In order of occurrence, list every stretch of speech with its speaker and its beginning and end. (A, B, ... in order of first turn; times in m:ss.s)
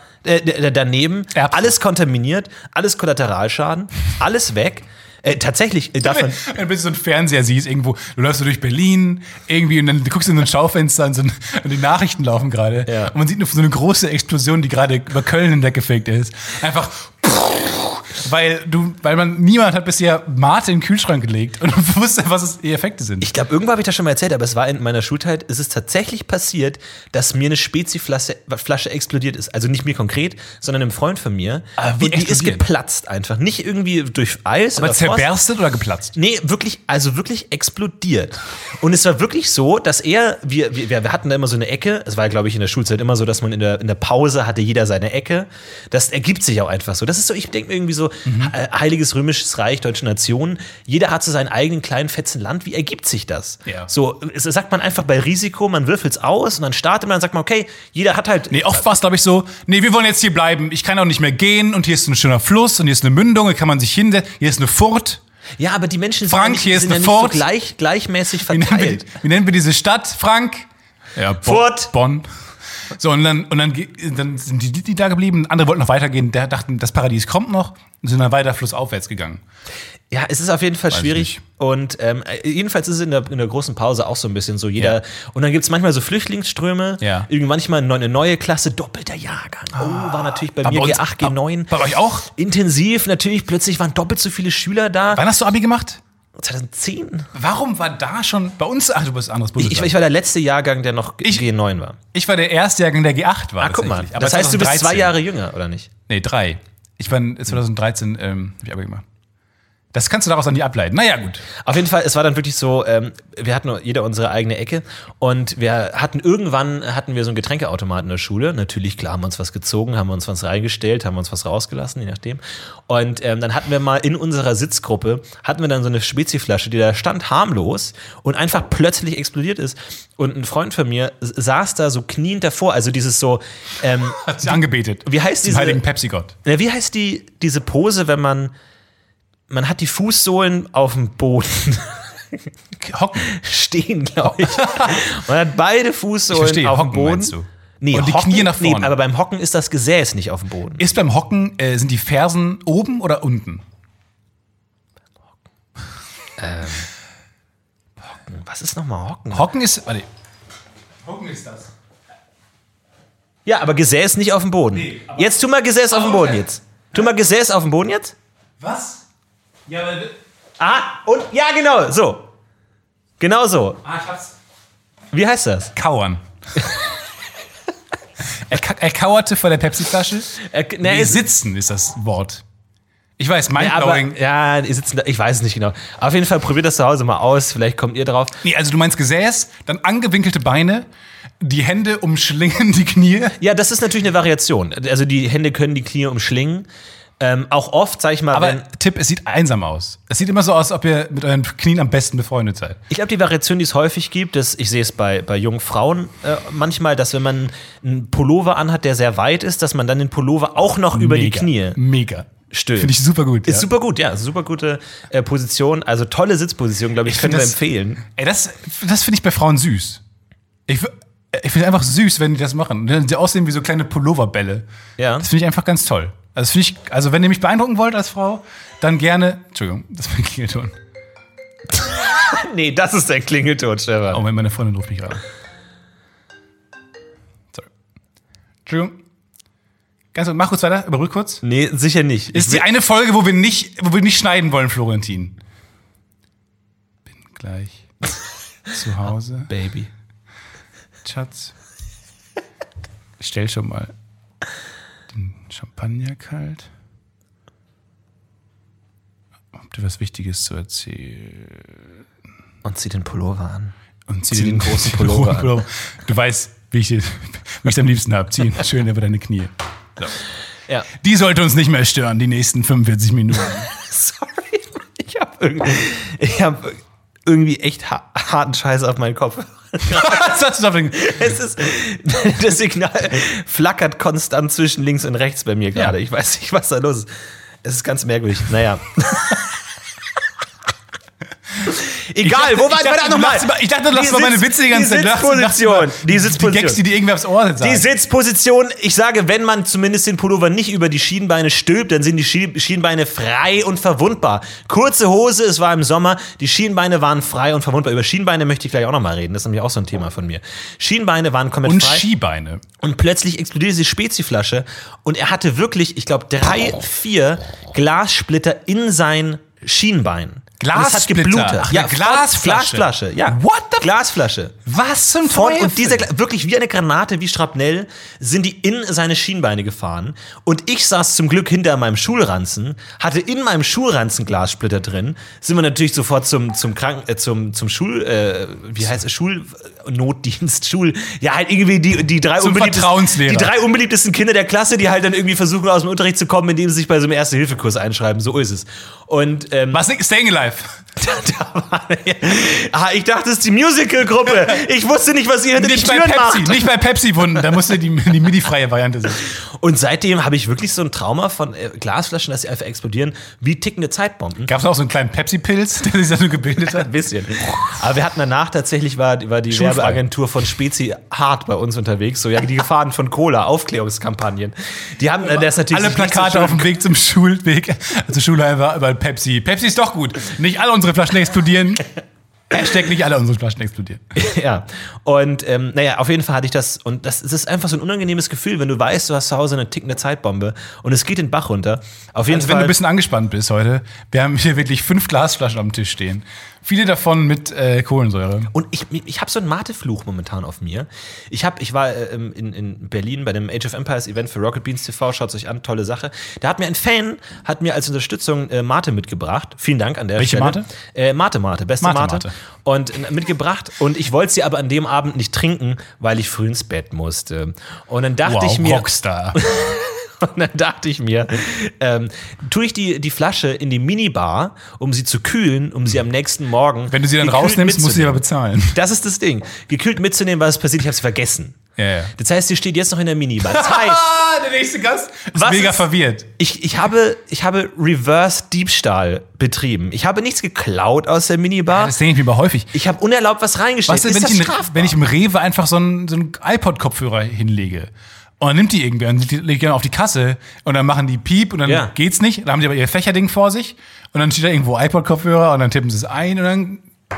0:00.2-0:06.4 A
0:01.3-0:01.7 B
0:06.0-0:23.3 B
0:12.9-0:13.1 A
0:23.2-0:35.3 A
0:31.8-0:32.6 B
0:34.8-0:36.1 B
0:36.1-0:58.8 A
0:48.2-0:48.5 B
0:58.5-1:05.2 B
1:05.6-1:09.1 A
1:06.2-1:07.5 B
1:08.5-1:12.3 B
1:11.4-1:11.9 A
1:12.9-1:19.4 B
1:20.1-1:35.2 A
1:20.9-1:21.4 B
1:27.0-1:27.3 B
1:29.7-1:32.3 B
1:35.1-1:36.0 B
1:36.4-1:37.3 A
1:37.3-1:39.9 B
1:39.6-1:42.0 A
1:42.1-1:45.2 B
1:43.6-1:45.9 A
1:46.1-1:49.0 B
1:49.9-1:51.4 B
1:51.6-2:15.8 A
2:14.2-2:16.3 B
2:16.4-2:18.5 A
2:19.5-2:22.4 A
2:22.8-2:23.3 B
2:23.2-2:30.8 A
2:24.3-2:25.0 B
2:26.3-2:28.9 B
2:30.8-2:33.6 B
2:36.4-2:36.9 A
2:38.1-2:39.5 A
2:39.3-2:40.1 B
2:41.0-2:41.7 B
2:43.4-2:48.1 A
2:44.7-2:45.4 B
2:45.9-2:46.4 B
2:48.6-2:49.0 B
2:49.7-2:50.2 B
2:50.6-2:52.3 A
2:53.2-2:53.8 A
2:53.8-2:54.3 B
2:55.1-2:55.7 A
2:55.7-2:56.2 B
2:58.4-3:02.4 B
3:00.3-3:01.2 A
3:03.2-3:04.2 B
3:03.6-3:08.4 A
3:08.4-3:10.9 B
3:11.4-3:13.4 B
3:13.4-3:16.7 A
3:17.2-3:18.6 A
3:18.3-3:22.8 B
3:22.9-3:31.8 A
3:30.9-3:33.7 B
3:32.5-3:38.0 A
3:37.0-3:40.0 B
3:40.7-3:44.6 B
3:45.0-3:45.3 A
3:45.2-3:50.7 B
3:51.8-3:54.2 A
3:54.1-3:55.2 B
3:58.6-3:59.0 B
4:00.1-4:01.4 B
4:01.4-4:02.6 A
4:02.3-4:05.4 B
4:07.1-4:07.8 B
4:08.7-4:09.5 B
4:09.5-4:09.9 A
4:11.0-4:11.5 B
4:13.2-4:13.9 B
4:15.1-4:16.7 B
4:19.6-4:21.8 B
4:22.6-4:23.7 A
4:24.1-4:30.2 B
4:24.3-4:25.6 A
4:30.9-4:33.7 B
4:33.7-4:40.4 A
4:39.8-4:41.3 B
4:40.9-4:47.1 A
4:47.6-4:49.4 A
4:51.7-4:56.8 A
4:52.2-4:57.9 B
4:57.6-5:12.0 A
5:11.6-5:12.6 B
5:12.8-5:24.6 A
5:20.6-5:23.9 B
5:24.6-5:26.1 B
5:25.2-5:49.8 A
5:42.4-5:43.5 B
5:49.7-5:50.8 B
5:51.0-5:56.7 A
5:55.6-5:59.3 B
5:59.3-6:04.5 A
6:04.4-6:06.9 B
6:06.6-6:16.7 A
6:09.5-6:10.0 B
6:15.2-6:21.8 B
6:22.5-6:24.0 B
6:24.1-6:32.7 A
6:32.3-6:38.5 B
6:38.5-7:11.6 A
6:50.2-6:50.7 B
6:51.8-6:52.3 B
6:58.2-6:59.4 B
7:06.9-7:08.8 B
7:11.8-7:12.1 B
7:12.1-7:14.1 A
7:13.4-7:16.3 B
7:15.3-7:21.9 A
7:21.7-7:22.7 B
7:22.7-7:25.0 A
7:23.9-7:36.8 B
7:31.6-7:31.9 A